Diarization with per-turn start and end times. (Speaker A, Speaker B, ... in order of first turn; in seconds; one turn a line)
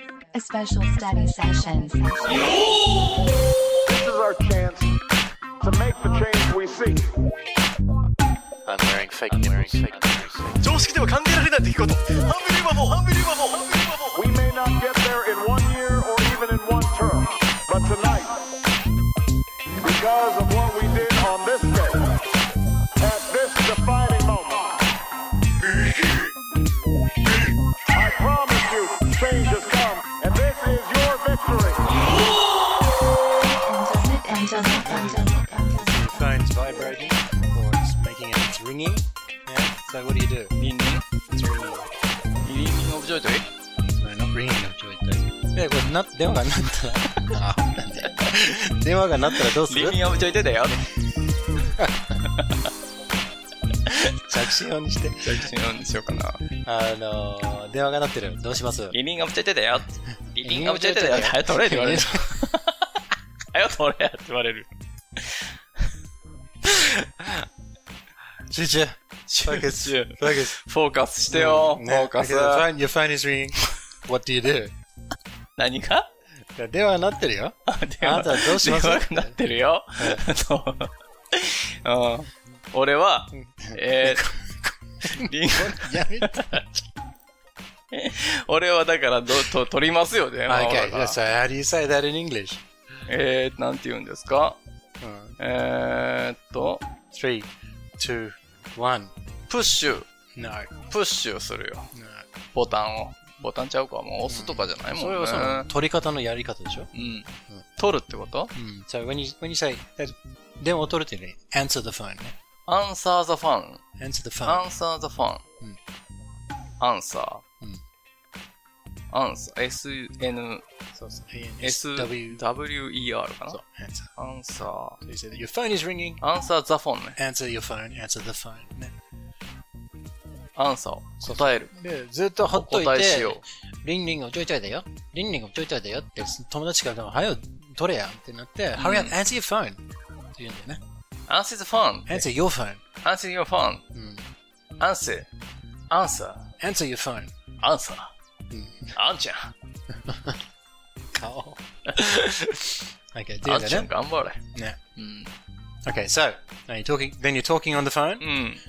Speaker A: 0.3-2.5
Speaker B: 3.9-5.0
Speaker B: 5.6-7.1
Speaker C: 8.7-14.2
Speaker D: 8.7-10.4
Speaker B: 14.1-18.4
Speaker B: 19.8-22.2
Speaker B: 23.0-24.8
Speaker B: 27.9-31.9
Speaker A: 33.4-37.3
Speaker D: 34.6-40.5
Speaker E: 40.5-41.0
Speaker D: 41.3-41.9
Speaker E: 42.5-43.5
Speaker D: 43.9-50.0
Speaker E: 49.3-50.9
Speaker E: 52.2-52.7
Speaker D: 54.2-55.5
Speaker E: 55.2-56.4
Speaker D: 56.6-59.0
Speaker E: 58.9-63.0
Speaker D: 60.3-62.2
Speaker E: 63.5-65.5
Speaker E: 66.6-67.4
Speaker D: 68.5-70.5
Speaker E: 69.3-72.7
Speaker D: 71.3-74.7
Speaker E: 75.6-76.1
Speaker D: 76.6-79.4
Speaker E: 77.7-84.3
Speaker D: 80.0-80.2
Speaker D: 83.3-86.8
Speaker E: 85.0-86.6
Speaker E: 87.9-91.2
Speaker D: 90.5-92.6
Speaker E: 93.1-94.6
Speaker D: 95.0-95.4
Speaker E: 95.4-96.8
Speaker D: 97.1-99.1
Speaker E: 99.5-100.1
Speaker D: 100.3-100.8
Speaker E: 100.9-101.9
Speaker D: 101.9-102.2
Speaker E: 102.5-105.7
Speaker D: 104.3-106.9
Speaker E: 106.9-108.5
Speaker D: 108.5-112.3
Speaker E: 112.7-113.8
Speaker D: 114.0-114.7
Speaker E: 114.5-115.4
Speaker E: 116.8-117.4
Speaker E: 119.1-120.6
Speaker D: 120.9-122.4
Speaker E: 121.6-123.6
Speaker D: 123.5-124.1
Speaker E: 124.2-125.0
Speaker D: 125.0-126.2
Speaker E: 126.2-127.2
Speaker D: 127.2-128.9
Speaker E: 130.6-131.7
Speaker D: 131.2-139.8
Speaker E: 132.5-133.4
Speaker E: 138.8-139.2
Speaker D: 140.3-140.8
Speaker E: 141.3-142.3
Speaker D: 142.1-142.8
Speaker E: 143.0-143.8
Speaker D: 143.9-144.2
Speaker E: 144.8-145.3
Speaker E: 145.9-146.5
Speaker D: 146.6-147.3
Speaker E: 147.6-148.1
Speaker D: 148.5-148.9
Speaker E: 148.9-149.5
Speaker D: 149.9-150.4
Speaker D: 151.1-153.9
Speaker E: 151.9-152.3
Speaker E: 153.4-154.4
Speaker E: 154.9-155.3
Speaker D: 155.8-158.2
Speaker E: 158.2-158.6